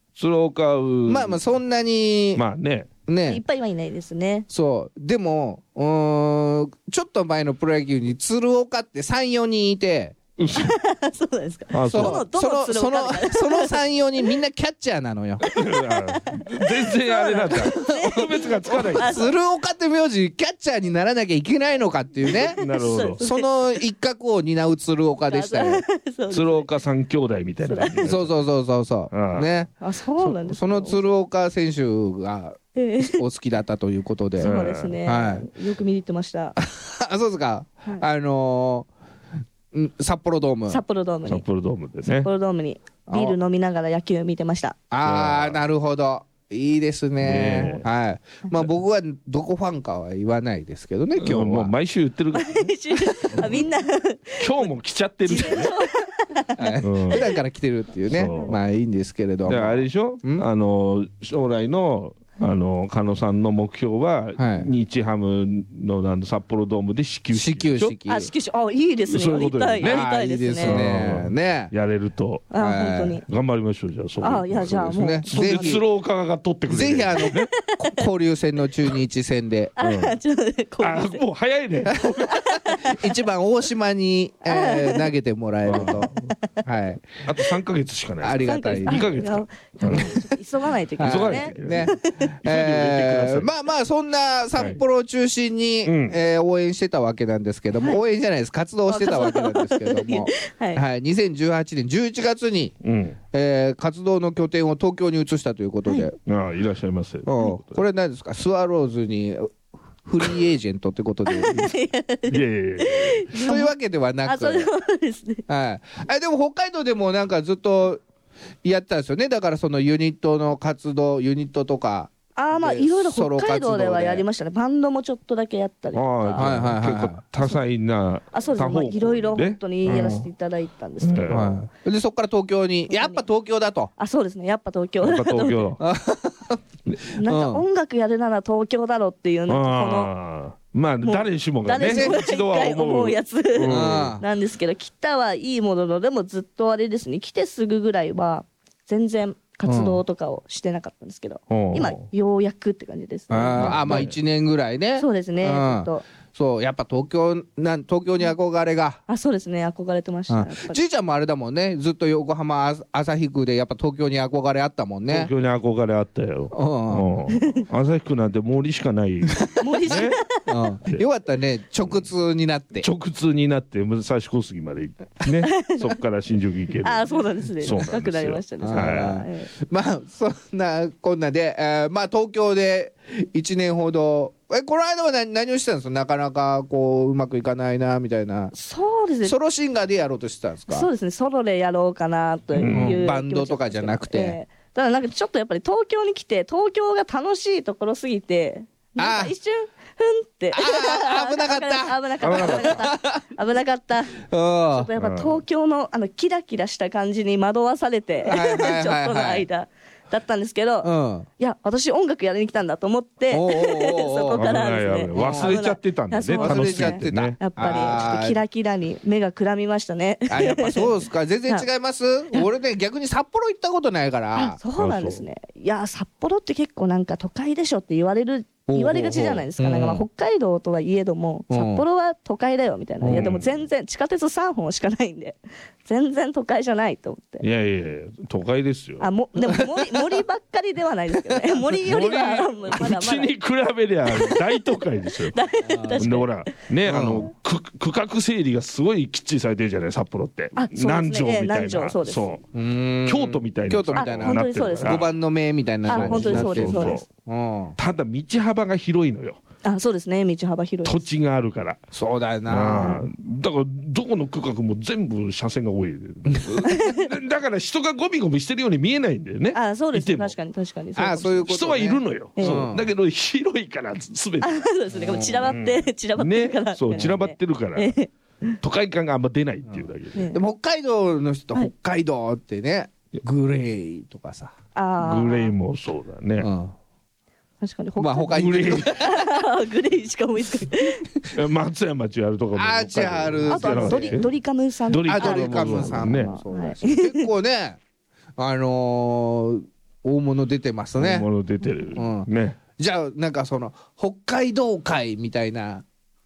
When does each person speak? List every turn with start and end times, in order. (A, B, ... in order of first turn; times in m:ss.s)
0:00.2-0:01.4 A
0:01.1-0:02.4 B
0:02.3-0:02.9 A
0:03.1-0:03.4 B
0:03.3-0:04.4 C
0:04.5-0:10.2 B
0:10.4-0:10.8 A
0:10.5-0:13.8 C
0:11.7-0:12.2 A
0:11.9-0:15.4 B
0:15.4-0:19.2 A
0:15.4-0:19.3 C
0:17.6-0:25.8 B
0:22.3-0:23.5 C
0:22.4-0:23.2 A
0:25.3-0:26.7 C
0:26.3-0:28.3 A
0:27.6-0:28.0 C
0:28.0-0:35.5 B
0:29.1-0:29.5 A
0:29.8-0:31.1 C
0:32.8-0:33.2 C
0:34.4-0:36.6 C
0:34.4-0:35.0 A
0:36.6-0:38.9 B
0:39.7-0:40.8 B
0:40.7-0:41.4 C
0:41.3-0:42.3 A
0:42.1-0:44.8 C
0:43.1-0:43.4 B
0:44.9-0:51.7 B
0:45.0-0:45.6 A
0:47.2-0:47.8 A
0:51.2-0:53.6 A
0:52.3-0:54.7 C
0:54.4-0:55.7 A
0:55.2-0:57.2 C
0:56.6-1:00.4 B
0:56.8-0:57.2 A
0:58.1-0:58.6 A
0:59.4-1:07.9 A
1:04.4-1:04.7 B
1:07.3-1:08.3 B
1:08.0-1:10.8 C
1:09.1-1:10.0 A
1:09.8-1:11.7 B
1:10.6-1:12.5 A
1:12.5-1:13.2 C
1:12.6-1:13.2 B
1:13.3-1:17.5 A
1:14.2-1:15.8 C
1:14.7-1:15.8 B
1:16.7-1:19.7 B
1:17.5-1:18.0 C
1:19.8-1:21.2 C
1:19.8-1:20.2 A
1:20.8-1:22.6 A
1:22.2-1:23.1 C
1:22.8-1:26.1 B
1:24.4-1:25.1 C
1:25.6-1:26.3 A
1:26.6-1:27.1 B
1:27.2-1:30.1 A
1:28.2-1:29.2 B
1:28.4-1:32.3 C
1:29.8-1:30.2 B
1:31.0-1:42.8 B
1:31.0-1:33.5 A
1:35.8-1:36.2 A
1:38.9-1:40.8 C
1:42.8-1:43.2 A
1:43.3-1:46.2 B
1:46.2-1:47.8 A
1:47.2-1:51.7 B
1:51.3-1:53.7 C
1:52.3-1:53.3 A
1:53.4-1:54.7 B
1:54.2-1:55.4 C
1:55.5-1:58.0 B
1:58.6-2:04.2 B
2:02.4-2:06.6 C
2:05.9-2:10.2 A
2:06.4-2:07.2 B
2:08.3-2:11.3 C
2:09.8-2:10.2 B
2:11.0-2:11.6 A
2:11.3-2:13.9 B
2:12.9-2:13.2 C
2:14.0-2:15.7 C
2:15.0-2:15.8 A
2:15.8-2:16.6 B
2:17.1-2:20.1 C
2:17.2-2:17.6 B
2:19.5-2:24.2 A
2:21.0-2:34.0 C
2:21.8-2:22.2 B
2:23.7-2:24.2 B
2:29.6-2:30.0 B
2:31.5-2:32.1 A
2:33.3-2:39.0 B
2:33.5-2:34.1 A
2:35.0-2:36.0 C
2:39.1-2:40.8 C
2:40.3-2:45.3 B
2:45.1-2:50.2 A
2:46.5-2:47.2 B
2:47.4-2:47.6 C
2:49.4-2:52.9 B
2:49.6-2:50.5 C
2:52.8-2:59.2 A
2:55.4-2:55.8 C
2:56.8-2:59.5 C
2:58.6-3:08.5 B
3:08.5-3:09.4 C
3:09.2-3:10.9 B
3:10.7-3:24.2 C
3:12.5-3:13.0 A
3:12.7-3:14.4 B
3:19.0-3:19.3 B
3:20.5-3:23.2 B
3:22.2-3:22.9 A
3:24.2-3:24.9 B
3:24.7-3:40.9 C
3:25.0-3:25.4 A
3:28.2-3:29.4 B
3:30.8-3:31.3 B
3:33.3-3:34.5 B
3:34.3-3:38.0 A
3:35.1-3:35.6 B
3:36.4-3:38.4 B
3:40.3-3:44.6 B
3:44.3-3:57.4 C
3:44.8-3:45.2 A
3:48.7-3:50.0 B
3:51.5-3:51.8 B
3:53.0-3:53.4 B
3:53.0-3:53.6 A
3:57.4-3:59.1 A
3:59.0-4:03.3 C
3:59.6-3:59.9 B
4:01.7-4:05.4 A
4:04.1-4:04.4 C
4:05.2-4:06.3 C
4:05.6-4:06.2 B
4:06.0-4:12.4 A
4:06.8-4:07.3 B
4:10.6-4:12.2 C
4:12.5-4:17.8 B
4:13.0-4:15.1 A
4:14.0-4:15.0 C
4:15.9-4:17.0 C
4:15.9-4:17.0 A
4:17.8-4:19.4 A
4:19.6-4:21.0 C
4:20.8-4:21.8 A
4:21.9-4:23.0 B
4:22.5-4:30.3 A
4:22.7-4:23.0 C
4:26.3-4:26.6 B
4:26.6-4:27.1 C
4:29.5-4:31.5 C
4:31.0-4:32.9 B
4:31.4-4:34.6 A
4:32.4-4:32.7 C
4:34.4-4:38.6 C
4:34.9-4:35.6 B
4:35.4-4:38.0 A
4:38.6-4:40.2 A
4:39.7-4:44.5 B
4:40.1-4:40.4 C
4:44.7-4:45.5 C
4:45.0-4:46.5 A
4:46.4-4:46.7 B
4:47.6-4:51.0 C
4:48.0-4:49.3 B
4:48.3-4:49.0 A
4:51.3-4:54.3 A
4:52.5-4:54.2 B
4:53.5-4:57.3 C
4:54.9-4:56.3 A
4:55.1-4:57.8 B
4:58.4-5:01.3 B
5:01.0-5:02.6 A
5:01.9-5:05.8 B